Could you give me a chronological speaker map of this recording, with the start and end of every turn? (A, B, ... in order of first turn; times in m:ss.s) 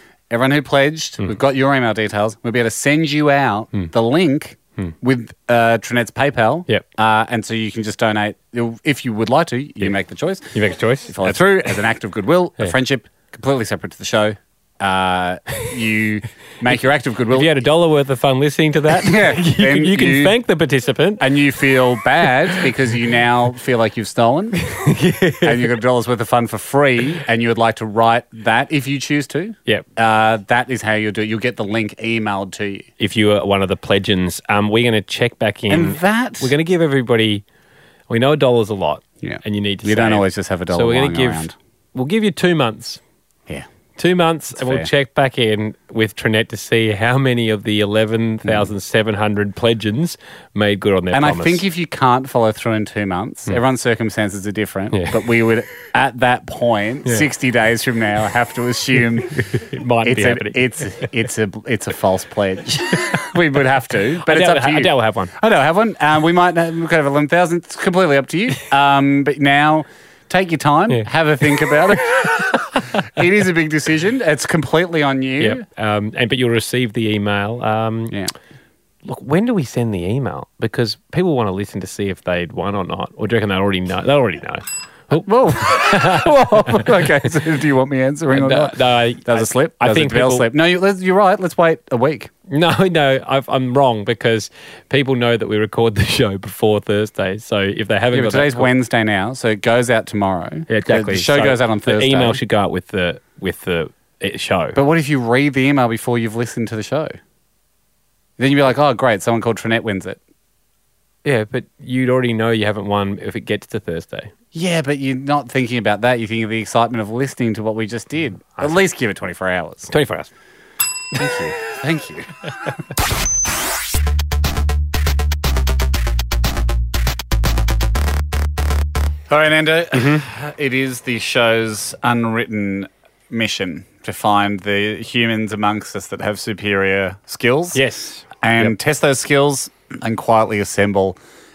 0:00.3-0:17.6 A
0:10.5-0:11.8 B
0:17.3-0:21.2 B
0:18.9-0:20.4 A
0:21.2-0:24.6 A
0:24.6-0:25.7 B
0:25.4-0:32.9 A
0:33.0-0:37.4 B
0:35.7-0:36.5 A
0:38.1-0:43.0 B
0:39.2-0:41.5 A
0:44.0-0:51.6 B
0:44.5-0:44.9 A
0:48.4-0:48.7 A
0:51.1-1:15.6 A
0:54.9-0:55.3 B
0:59.3-1:01.1 B
1:04.2-1:05.3 B
1:15.4-1:18.2 B
1:19.0-1:27.0 B
1:25.1-1:32.3 A
1:28.3-1:30.5 B
1:32.5-1:38.7 B
1:38.1-1:42.4 A
1:40.7-1:44.8 B
1:44.7-1:47.1 A
1:48.4-1:50.2 A
1:51.2-1:54.3 B
1:54.5-1:59.9 A
1:59.9-2:00.3 B
2:01.1-2:02.3 A
2:09.3-2:17.8 A
2:09.9-2:10.2 B
2:17.7-2:18.7 B
2:18.4-2:21.2 A